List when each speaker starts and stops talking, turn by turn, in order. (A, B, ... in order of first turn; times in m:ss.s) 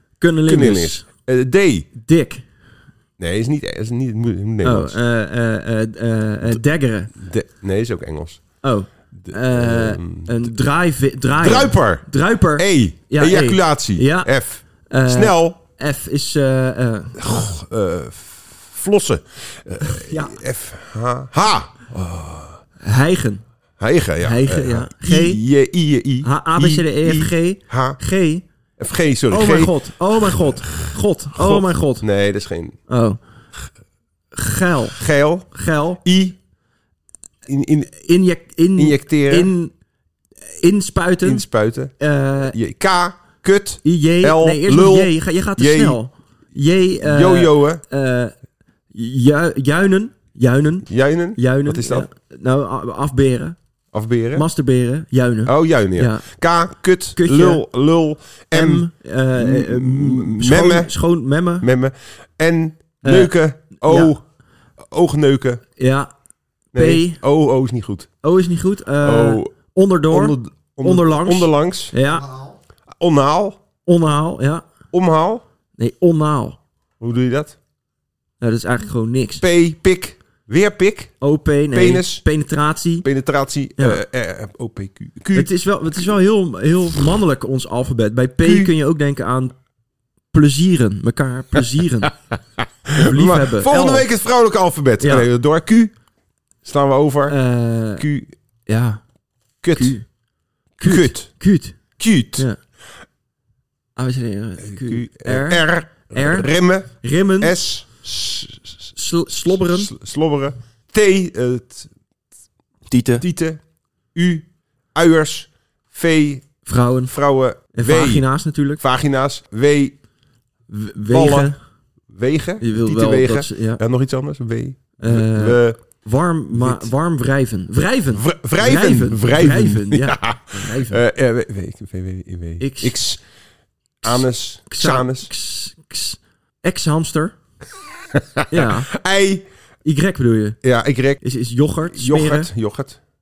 0:00.2-0:01.0 A
0:00.4-0:01.9 B
0:01.9-0:02.4 A
0:03.2-0:05.0 B
0:04.6-0:07.2 A
0:07.2-0:08.4 B
0:08.6-0:14.3 A
0:09.2-0:10.3 B
0:11.4-0:15.6 B
0:14.9-0:17.3 A
0:17.2-0:22.6 B
0:19.9-0:20.4 A
0:22.8-0:23.4 A
0:23.8-0:28.0 B
0:24.2-0:25.4 A
0:26.2-0:28.4 A
0:28.8-0:32.8 B
0:29.3-0:32.0 A
0:32.9-0:33.2 A
0:34.3-0:35.0 A
0:34.9-0:35.5 B
0:35.5-0:36.0 A
0:36.0-0:36.4 B
0:37.4-0:37.9 B
0:37.9-0:39.7 A
0:38.8-0:39.5 B
0:40.4-0:41.4 A
0:41.2-0:46.0 B
0:42.0-0:42.6 A
0:43.8-0:48.3 A
0:47.0-0:47.8 B
0:48.9-0:53.6 A
0:50.9-0:52.1 B
0:53.9-0:54.5 B
0:54.3-0:56.3 A
0:55.4-1:00.9 B
0:57.2-0:57.6 A
0:58.5-1:01.6 A
1:01.6-1:04.2 B
1:03.0-1:04.1 A
1:04.9-1:05.6 B
1:05.8-1:06.1 A
1:06.7-1:07.2 A
1:06.7-1:08.1 B
1:08.2-1:12.4 A
1:09.0-1:09.5 B
1:10.1-1:11.9 B
1:13.0-1:13.6 B
1:13.8-1:14.6 A
1:14.9-1:15.4 B
1:15.8-1:16.6 A
1:17.0-1:17.6 B
1:18.4-1:19.4 A
1:19.4-1:21.1 B
1:21.2-1:23.0 A
1:21.7-1:22.2 B
1:23.0-1:25.5 B
1:25.3-1:29.6 A
1:28.4-1:28.7 B
1:30.3-1:32.1 A
1:32.9-1:34.1 A
1:32.9-1:35.9 B
1:35.0-1:35.3 A
1:36.6-1:37.4 B
1:37.3-1:38.0 A
1:38.0-1:38.3 B
1:38.6-1:39.0 A
1:39.6-1:40.0 B
1:39.7-1:40.1 A
1:40.8-1:41.8 A
1:40.8-1:41.3 B
1:42.0-1:42.5 B
1:44.0-1:46.5 A
1:44.6-1:48.7 B
1:47.0-1:47.6 A
1:48.9-1:49.9 A
1:49.6-1:51.9 B
1:52.9-1:53.2 A
1:53.2-1:53.6 B
1:54.1-1:58.2 B
1:56.6-1:57.1 A
1:57.7-1:58.8 A
1:58.8-2:00.0 B
2:00.7-2:01.6 A
2:01.1-2:01.5 B
2:02.1-2:05.8 B
2:02.6-2:03.8 A
2:05.0-2:11.0 A
2:06.5-2:06.9 B
2:08.1-2:13.2 B
2:12.6-2:13.0 A
2:14.0-2:17.4 A
2:14.0-2:15.3 B
2:18.1-2:19.4 B
2:18.5-2:18.9 A
2:19.8-2:20.6 A
2:20.6-2:21.2 B
2:21.2-2:22.5 A
2:21.9-2:23.0 B